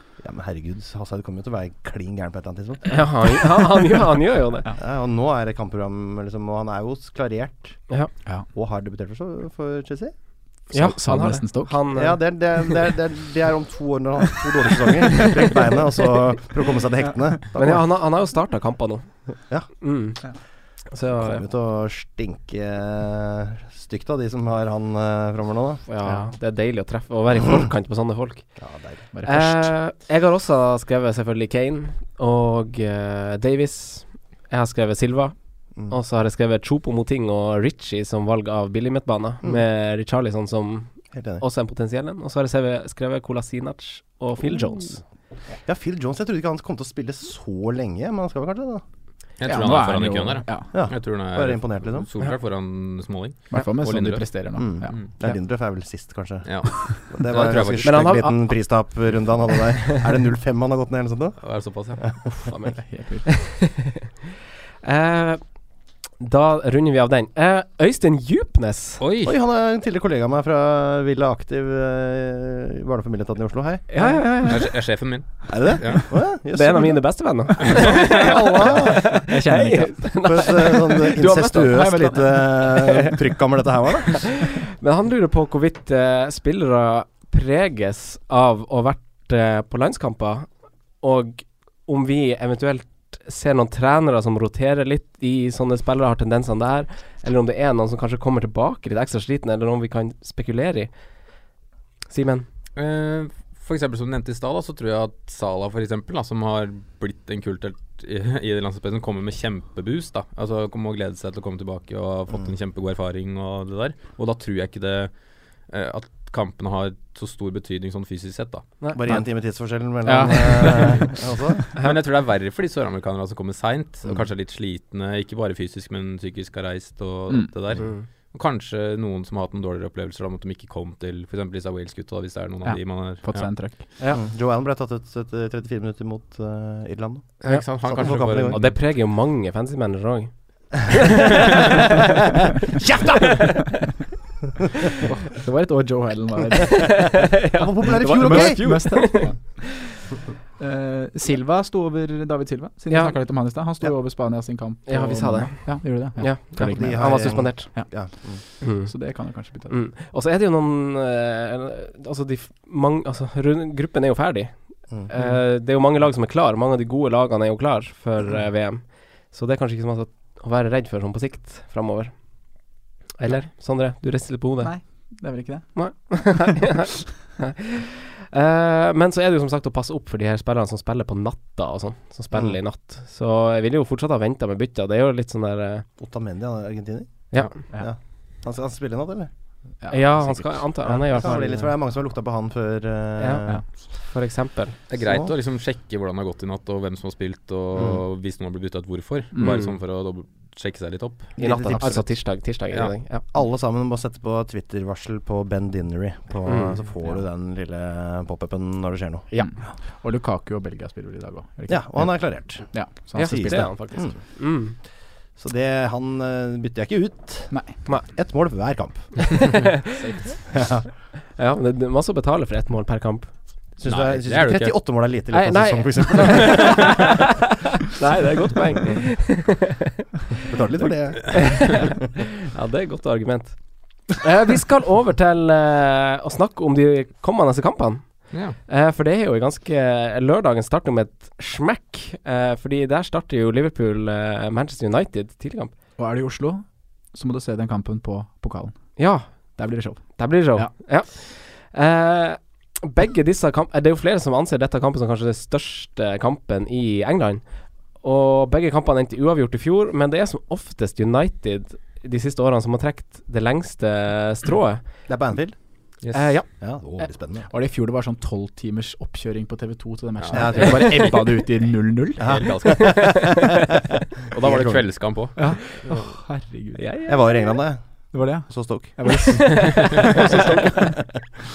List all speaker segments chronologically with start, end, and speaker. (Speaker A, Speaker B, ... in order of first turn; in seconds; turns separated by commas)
Speaker A: 0.2-3.7, Speaker B: 2.9-4.6, Speaker A: 4.7-7.9, Speaker A: 8.5-10.1, Speaker C: 10.7-11.8, Speaker B: 10.7-12.3, Speaker A: 11.9-17.9, Speaker B: 17.6-19.1, Speaker B: 19.8-20.3, Speaker B: 20.8-21.4, Speaker A: 21.1-25.8, Speaker B: 25.9-28.6, Speaker C: 26.0-26.3, Speaker A: 28.6-29.1, Speaker C: 29.1-29.7, Speaker B: 29.2-45.0, Speaker A: 41.1-41.4, Speaker A: 45.6-48.8, Speaker D: 49.4-55.1, Speaker C: 49.4-50.7, Speaker A: 50.7-52.1, Speaker C: 53.5-55.4, Speaker A: 54.5-61.4, Speaker D: 56.4-58.2, Speaker B: 57.8-58.6, Speaker D: 61.4-62.2, Speaker B: 62.5-64.0, Speaker C: 62.8-63.3, Speaker B: 64.8-65.4, Speaker B: 66.2-69.0, Speaker D: 69.0-69.3, Speaker A: 69.2-74.0, Speaker B: 73.9-74.7, Speaker D: 74.4-76.1, Speaker A: 75.5-77.0, Speaker B: 76.5-83.0, Speaker D: 77.6-78.7, Speaker A: 77.8-79.1, Speaker C: 79.3-80.1, Speaker A: 80.2-84.2, Speaker C: 81.6-82.6, Speaker B: 84.2-90.5, Speaker B: 91.0-100.9, Speaker B: 102.1-102.5, Speaker D: 102.7-115.1, Speaker D: 115.7-118.7, Speaker A: 118.9-121.6, Speaker C: 120.0-121.2, Speaker D: 121.8-133.5, Speaker B: 127.8-128.1, Speaker C: 132.6-133.8, Speaker A: 134.1-138.6, Speaker D: 137.4-138.8, Speaker B: 138.2-141.4, Speaker A: 142.8-143.5, Speaker C: 145.2-147.2, Speaker B: 146.7-149.4, Speaker A: 147.5-149.2, Speaker C: 148.2-149.7, Speaker C: 150.6-159.7, Speaker B: 152.9-153.2, Speaker B: 154.9-157.9, Speaker A: 156.5-158.4, Speaker B: 158.6-172.1, Speaker B: 173.2-174.7, Speaker C: 174.6-176.4, Speaker B: 175.7-185.9, Speaker A: 186.0-189.3, Speaker C: 189.8-190.6, Speaker B: 189.9-191.7, Speaker A: 190.8-193.6, Speaker C: 191.1-191.7, Speaker B: 193.2-194.8, Speaker D: 194.9-201.3, Speaker A: 195.0-195.3, Speaker C: 199.3-199.7, Speaker A: 201.4-202.1, Speaker B: 201.4-203.2, Speaker A: 203.3-209.3, Speaker B: 206.4-206.8, Speaker C: 209.3-213.8, Speaker A: 211.7-214.2, Speaker B: 213.1-214.8, Speaker A: 215.4-219.5, Speaker A: 220.5-220.9, Speaker B: 221.3-223.3, Speaker A: 223.8-226.9, Speaker D: 223.8-224.8, Speaker B: 225.3-227.2, Speaker B: 227.9-229.8, Speaker A: 230.4-231.9, Speaker B: 231.3-245.7, Speaker D: 238.3-238.6, Speaker C: 246.0-248.9, Speaker B: 249.0-257.4, Speaker C: 249.6-250.7, Speaker B: 258.0-264.8, Speaker A: 265.1-265.6, Speaker D: 266.0-266.4, Speaker B: 266.1-266.5, Speaker A: 266.6-267.5, Speaker C: 267.5-272.6, Speaker D: 270.2-271.3, Speaker A: 270.3-271.2, Speaker A: 272.2-273.1, Speaker D: 272.2-273.3, Speaker D: 274.3-275.9, Speaker A: 274.4-274.8, Speaker C: 275.4-276.8, Speaker B: 276.8-277.6, Speaker A: 277.1-279.2, Speaker C: 278.1-280.9, Speaker B: 279.1-280.6